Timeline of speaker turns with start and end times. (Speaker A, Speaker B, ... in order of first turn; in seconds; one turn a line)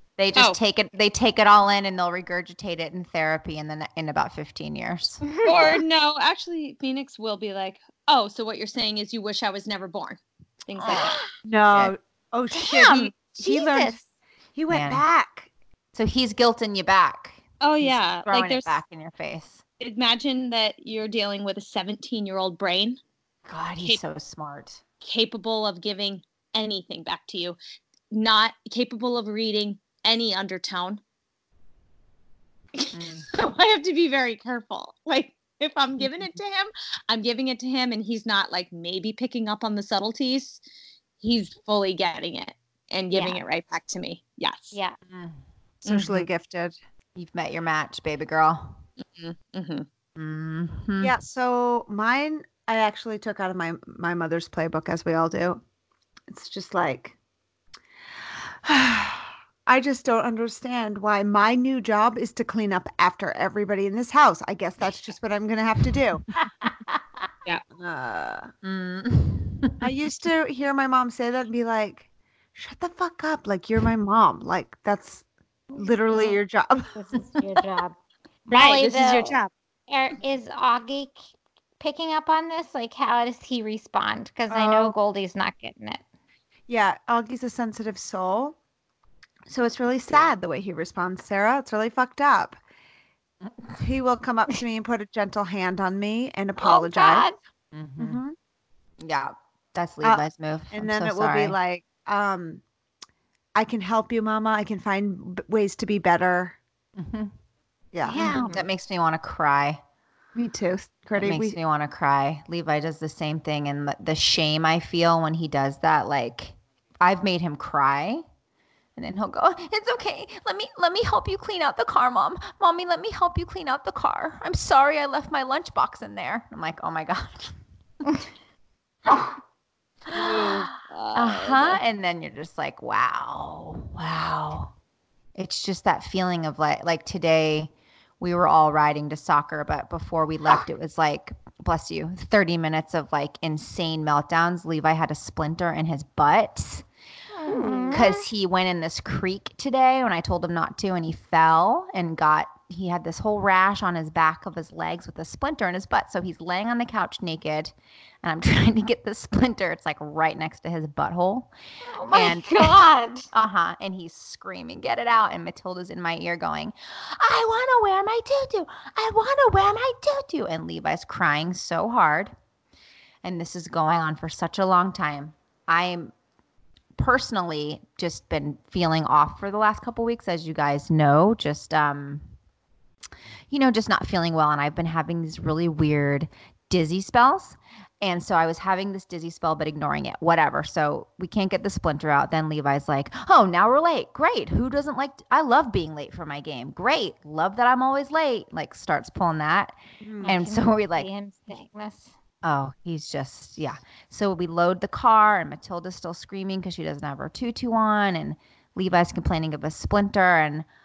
Speaker A: 0.2-5.2
Speaker B: 5.2-5.7
Speaker C: 5.4-11.2
Speaker A: 10.8-11.1
Speaker B: 10.9-11.2
Speaker D: 11.4-14.0
Speaker B: 12.5-14.0
Speaker D: 14.6-15.5
Speaker A: 14.7-15.0
Speaker A: 15.9-19.6
Speaker C: 17.6-18.8
Speaker C: 19.8-23.0
Speaker A: 23.5-24.8
Speaker C: 25.0-27.6
Speaker C: 28.1-31.0
Speaker C: 32.8-40.6
Speaker A: 32.9-33.3
Speaker A: 36.0-36.3
Speaker C: 41.2-44.8
Speaker B: 43.1-43.4
Speaker A: 45.1-45.4
Speaker D: 45.8-46.8
Speaker A: 46.0-46.2
Speaker A: 47.1-48.8
Speaker C: 49.0-49.9
Speaker A: 50.2-51.2
Speaker D: 51.0-55.6
Speaker D: 56.3-57.2
Speaker D: 58.6-66.2
Speaker D: 67.8-68.5
Speaker A: 68.6-69.9
Speaker D: 69.8-76.9
Speaker B: 76.9-78.0
Speaker C: 78.5-79.5
Speaker B: 78.5-81.2
Speaker B: 81.8-86.0
Speaker D: 84.5-84.9
Speaker D: 86.7-88.6
Speaker D: 89.5-92.6
Speaker A: 93.5-93.8
Speaker D: 93.8-97.3
Speaker B: 96.6-97.4
Speaker A: 97.7-98.2
Speaker D: 98.0-98.3
Speaker A: 99.0-101.6
Speaker D: 100.0-102.6
Speaker D: 103.5-106.6
Speaker A: 107.0-107.3
Speaker D: 107.9-108.5
Speaker B: 108.1-108.6
Speaker A: 108.4-109.8
Speaker D: 110.3-111.5
Speaker A: 111.2-118.2
Speaker A: 119.0-127.5
Speaker C: 130.1-131.8
Speaker A: 130.1-134.7
Speaker A: 135.4-146.8
Speaker B: 147.3-148.3
Speaker D: 147.5-148.0
Speaker A: 147.9-161.5
Speaker B: 161.9-163.3
Speaker A: 162.1-172.3
Speaker A: 173.2-176.1
Speaker A: 177.0-182.3
Speaker A: 183.5-201.1
Speaker D: 200.0-200.4
Speaker B: 200.2-202.1
Speaker A: 202.4-210.7